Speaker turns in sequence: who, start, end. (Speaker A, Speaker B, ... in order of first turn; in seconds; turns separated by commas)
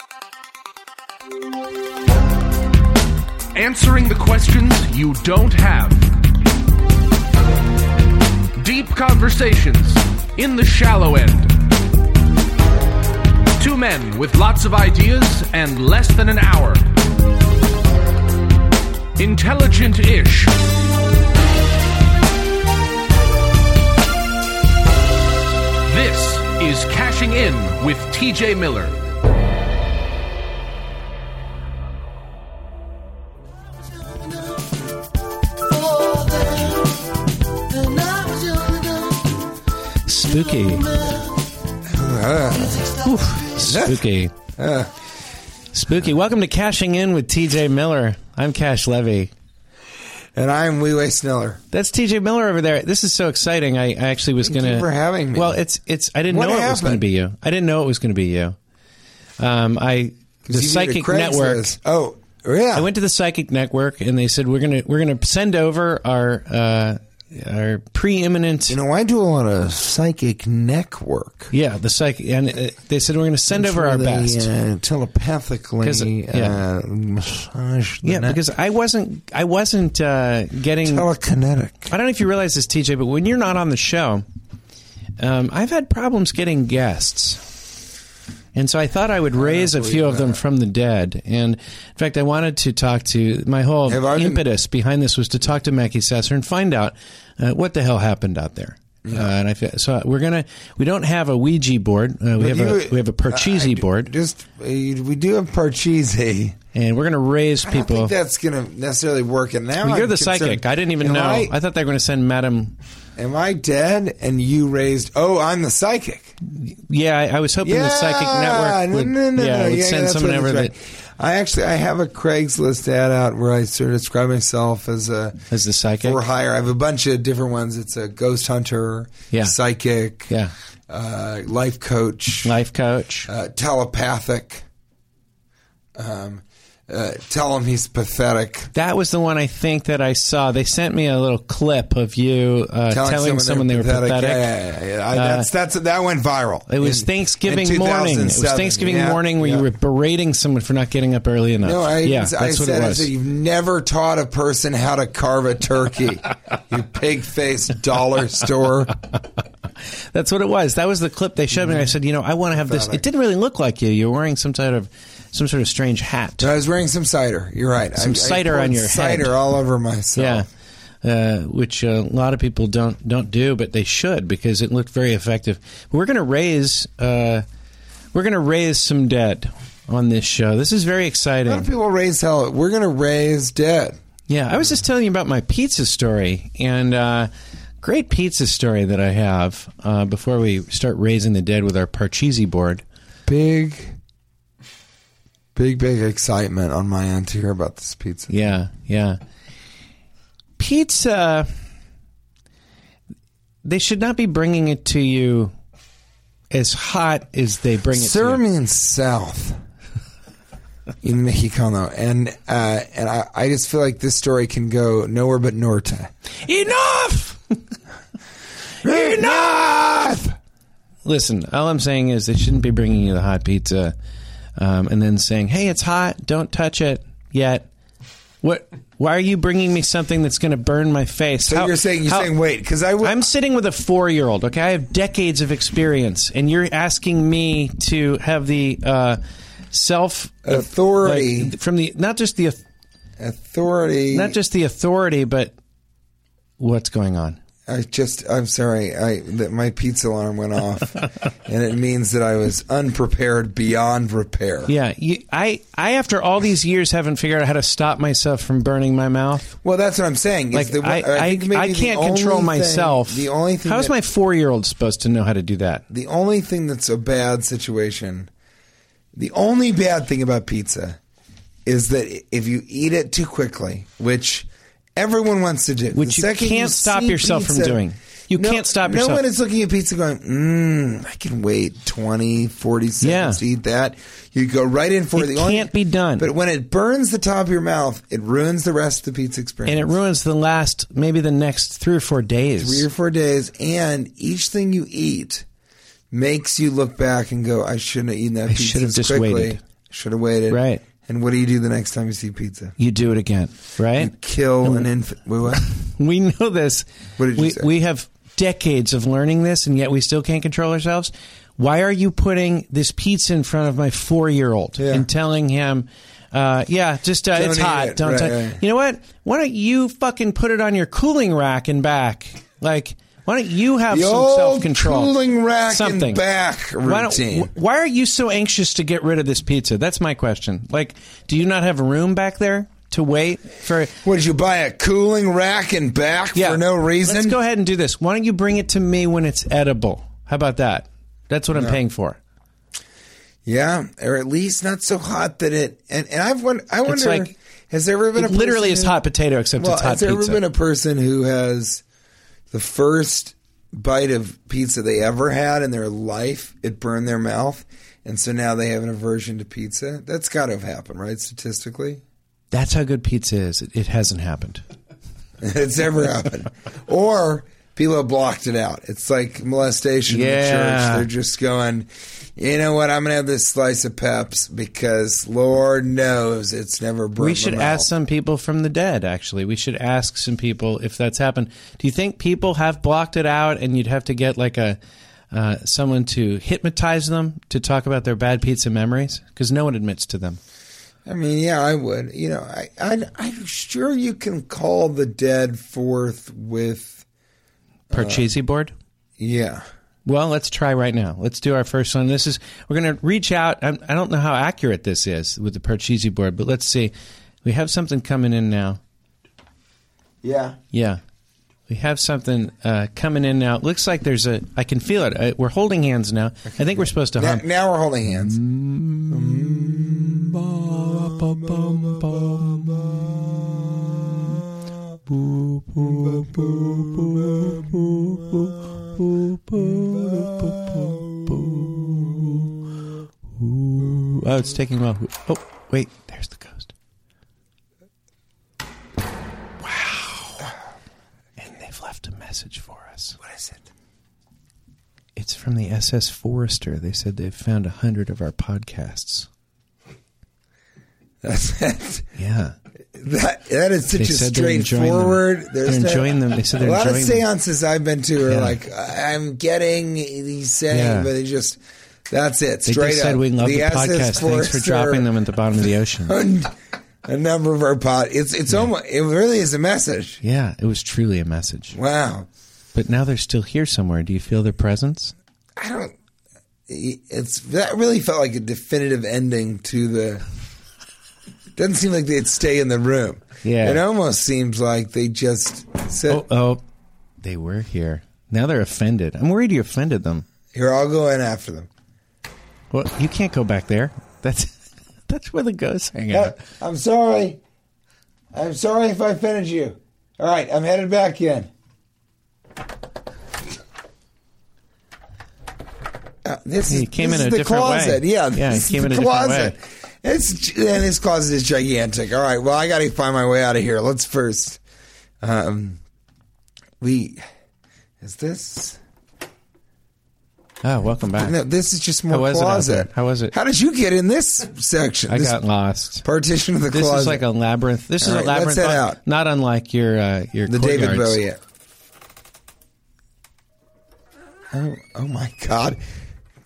Speaker A: 3.5-6.1, Speaker A: 8.6-11.6, Speaker A: 13.6-16.9, Speaker A: 19.2-20.6, Speaker A: 25.9-29.0, Speaker B: 40.0-41.1, Speaker C: 41.8-44.9, Speaker B: 42.9-44.4, Speaker B: 45.7-49.3, Speaker C: 50.4-51.6, Speaker B: 51.7-58.6, Speaker C: 54.4-55.6, Speaker C: 56.3-57.0, Speaker B: 59.4-61.7, Speaker C: 60.5-62.9, Speaker B: 62.8-68.8, Speaker C: 68.7-71.5, Speaker B: 71.5-74.5, Speaker C: 73.5-78.4, Speaker B: 75.8-76.6, Speaker B: 78.0-81.1, Speaker C: 80.8-81.9, Speaker B: 81.9-84.2, Speaker B: 85.2-87.4, Speaker B: 88.5-104.1, Speaker C: 89.4-90.4, Speaker C: 93.9-94.4, Speaker C: 99.0-99.3, Speaker C: 102.4-106.6, Speaker B: 106.7-108.2, Speaker C: 107.7-111.5, Speaker B: 109.8-112.8, Speaker C: 113.2-116.3, Speaker B: 116.5-120.7, Speaker C: 117.6-125.5, Speaker B: 125.5-126.2, Speaker C: 126.0-130.3, Speaker C: 130.9-132.6, Speaker B: 132.4-133.3, Speaker C: 133.3-134.7, Speaker C: 136.0-138.7, Speaker B: 138.7-144.5, Speaker C: 142.9-149.7, Speaker B: 145.1-145.5, Speaker B: 146.7-153.1, Speaker C: 151.6-158.9, Speaker B: 160.1-166.5, Speaker C: 162.6-163.0, Speaker C: 166.4-170.5, Speaker B: 168.0-169.3, Speaker B: 170.2-170.5, Speaker B: 171.0-177.4, Speaker B: 178.1-181.7, Speaker C: 181.5-184.0, Speaker B: 184.3-187.3, Speaker B: 187.8-192.8, Speaker C: 193.3-193.9, Speaker C: 195.6-198.3, Speaker B: 198.3-199.2, Speaker B: 200.6-201.5, Speaker B: 203.6-205.5, Speaker B: 206.5-208.4, Speaker C: 207.9-209.6, Speaker C: 211.0-216.1, Speaker B: 216.4-217.6, Speaker B: 218.8-219.5, Speaker C: 218.8-220.4, Speaker B: 221.1-223.9, Speaker B: 224.6-227.7, Speaker B: 228.4-232.3, Speaker C: 231.4-233.3, Speaker B: 233.0-239.2, Speaker B: 239.7-242.6, Speaker C: 240.4-241.6, Speaker C: 243.2-244.4, Speaker B: 244.1-245.5, Speaker B: 246.6-247.4, Speaker C: 247.7-254.7, Speaker B: 254.7-259.5, Speaker C: 259.6-263.9, Speaker B: 260.5-265.8, Speaker C: 265.9-268.3, Speaker C: 269.1-271.0, Speaker C: 271.7-290.0, Speaker B: 275.9-279.2, Speaker B: 283.0-283.4, Speaker B: 285.2-286.3, Speaker B: 289.7-292.9, Speaker C: 292.6-295.4, Speaker C: 296.1-302.8, Speaker B: 298.5-299.6, Speaker B: 300.5-300.8, Speaker B: 302.8-304.1, Speaker C: 304.0-305.7, Speaker B: 305.6-325.1, Speaker C: 307.2-307.7, Speaker C: 314.8-315.1, Speaker C: 317.3-318.6, Speaker C: 323.9-327.5, Speaker B: 325.7-326.2, Speaker B: 326.8-333.9, Speaker C: 334.0-337.4, Speaker B: 336.4-342.2, Speaker C: 341.5-341.8, Speaker C: 343.5-349.0, Speaker B: 346.8-347.3, Speaker B: 348.2-350.4, Speaker C: 349.6-351.8, Speaker C: 352.5-362.0, Speaker B: 362.5-364.6, Speaker C: 365.4-377.9, Speaker B: 370.1-371.1, Speaker B: 377.2-384.8, Speaker B: 385.3-390.4, Speaker C: 391.1-397.1, Speaker C: 397.9-398.3, Speaker B: 397.9-398.7, Speaker C: 399.2-399.6, Speaker B: 400.1-406.9, Speaker B: 407.4-408.8, Speaker C: 410.2-410.6, Speaker B: 410.7-411.0, Speaker B: 411.7-417.4, Speaker C: 417.2-418.4, Speaker B: 418.3-423.1, Speaker C: 419.1-424.3, Speaker B: 425.1-432.6, Speaker C: 425.8-428.4, Speaker C: 429.7-431.8, Speaker B: 433.4-436.7, Speaker B: 439.6-440.4, Speaker B: 441.4-443.2, Speaker C: 443.2-443.6, Speaker B: 445.2-449.3, Speaker C: 451.2-452.1, Speaker B: 452.2-452.5, Speaker C: 452.9-465.1, Speaker B: 453.9-457.2, Speaker B: 458.3-458.6, Speaker B: 460.7-461.1, Speaker B: 462.7-466.2, Speaker C: 466.1-470.2, Speaker B: 470.2-471.8, Speaker C: 471.7-472.3, Speaker B: 472.8-475.1, Speaker C: 475.6-475.9, Speaker C: 476.7-480.2, Speaker C: 481.6-486.3, Speaker B: 483.4-483.8, Speaker B: 486.1-486.6, Speaker B: 487.2-490.3, Speaker C: 490.5-491.7, Speaker B: 492.7-494.5, Speaker B: 495.1-496.4, Speaker C: 496.1-497.4, Speaker C: 498.3-501.5, Speaker C: 506.2-514.6, Speaker B: 506.7-509.5, Speaker C: 515.2-515.8, Speaker C: 516.8-517.2, Speaker C: 518.0-518.8, Speaker B: 520.6-521.4, Speaker C: 521.2-525.4, Speaker B: 522.1-523.3, Speaker B: 525.1-526.0, Speaker C: 526.0-527.2, Speaker B: 526.7-531.2, Speaker C: 528.0-529.0, Speaker C: 530.5-531.4, Speaker C: 534.5-535.8